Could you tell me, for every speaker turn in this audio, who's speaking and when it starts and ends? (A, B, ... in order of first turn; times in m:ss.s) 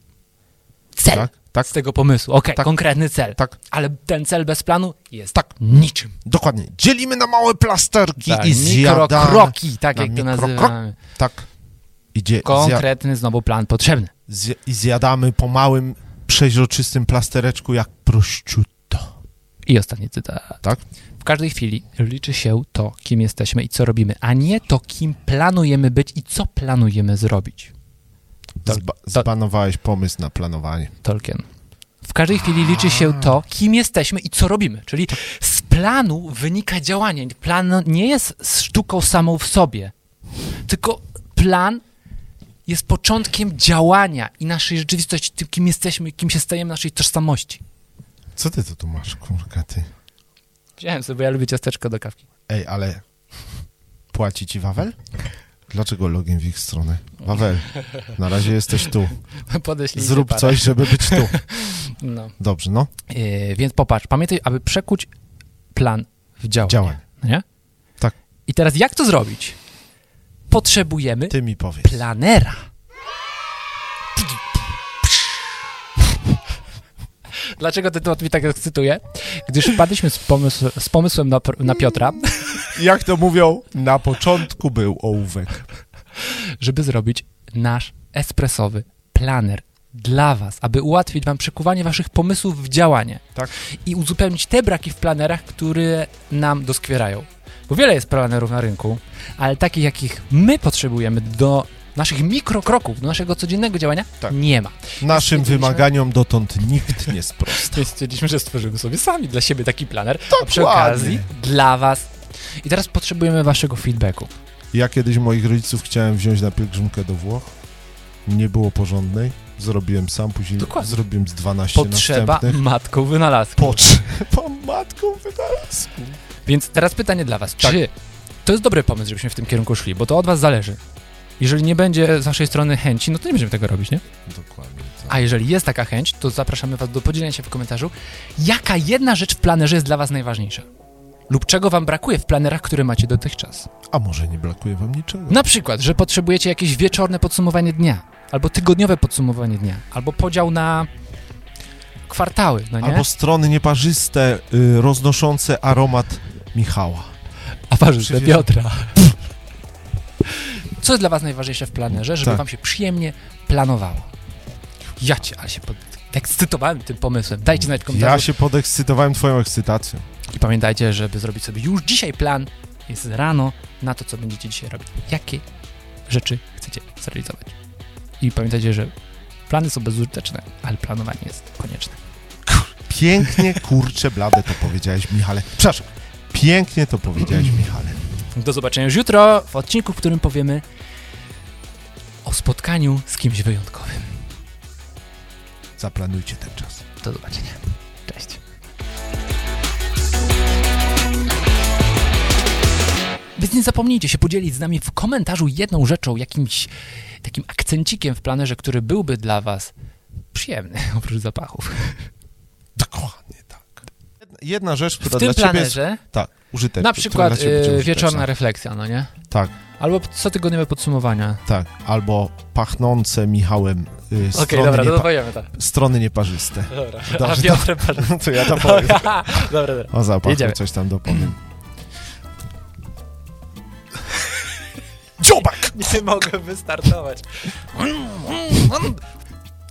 0:01.0-0:06.1 A
0:01.1-0:01.7 B
0:06.2-0:11.4 B
0:08.2-0:11.0 A
0:12.1-0:12.9 B
0:12.4-0:14.1 A
0:14.3-0:19.1 B
0:19.6-0:20.6 A
0:21.2-0:27.7 A
0:28.6-0:30.9 B
0:28.6-0:29.2 A
0:31.0-0:31.4 A
0:32.0-0:39.9 A
0:32.5-0:33.3 B
0:40.6-0:41.8 A
0:42.6-0:47.6 A
0:48.4-0:49.9 B
0:50.8-0:52.2 A
0:52.5-0:53.0 B
0:54.1-0:55.0 B
0:55.7-0:59.2 B
0:57.8-0:58.1 A
0:59.4-1:02.3 A
0:59.9-1:01.4 B
1:02.4-1:02.9 B
1:03.1-1:05.1 A
1:05.7-1:07.4 A
1:06.6-1:07.0 B
1:08.5-1:09.6 A
1:10.5-1:12.6 A
1:11.3-1:12.0 B
1:17.5-1:22.7 A
1:22.6-1:25.6 B
1:26.2-1:33.2 A
1:33.8-1:45.9 A
1:45.0-1:47.9 B
1:47.5-1:54.3 A
1:50.3-1:51.3 B
1:54.7-1:57.5 B
1:58.2-2:02.6 B
2:00.6-2:01.0 A
2:01.7-2:04.0 A
2:03.6-2:06.2 B
2:06.4-2:07.9 A
2:08.4-2:10.8 A
2:11.4-2:14.0 A
2:14.3-2:15.2 B
2:15.1-2:20.7 A
2:21.3-2:23.7 A
2:23.9-2:25.4 B
2:25.3-2:30.9 A
2:32.1-2:33.0 A
2:32.8-2:37.1 B
2:37.7-2:38.9 A
2:38.0-2:39.1 B
2:40.2-2:44.1 A
2:45.0-2:48.3 A
2:47.5-2:50.0 B
2:50.3-2:55.4 A
2:56.1-2:57.5 A
2:58.2-2:58.9 A
2:59.5-3:02.0 A
3:02.5-3:08.0 B
3:08.3-3:10.6 A
3:12.2-3:14.2 A
3:15.8-3:16.8 B
3:17.0-3:18.4 A
3:23.4-3:29.7 A
3:30.3-3:32.1 A
3:32.8-3:38.2 B
3:35.0-3:36.0 A
3:36.8-3:39.1 A
3:39.8-3:41.4 A
3:41.5-3:51.4 B
3:44.3-3:45.5 A
3:46.7-3:50.6 A
3:55.2-3:56.0 B
3:55.6-3:59.0 A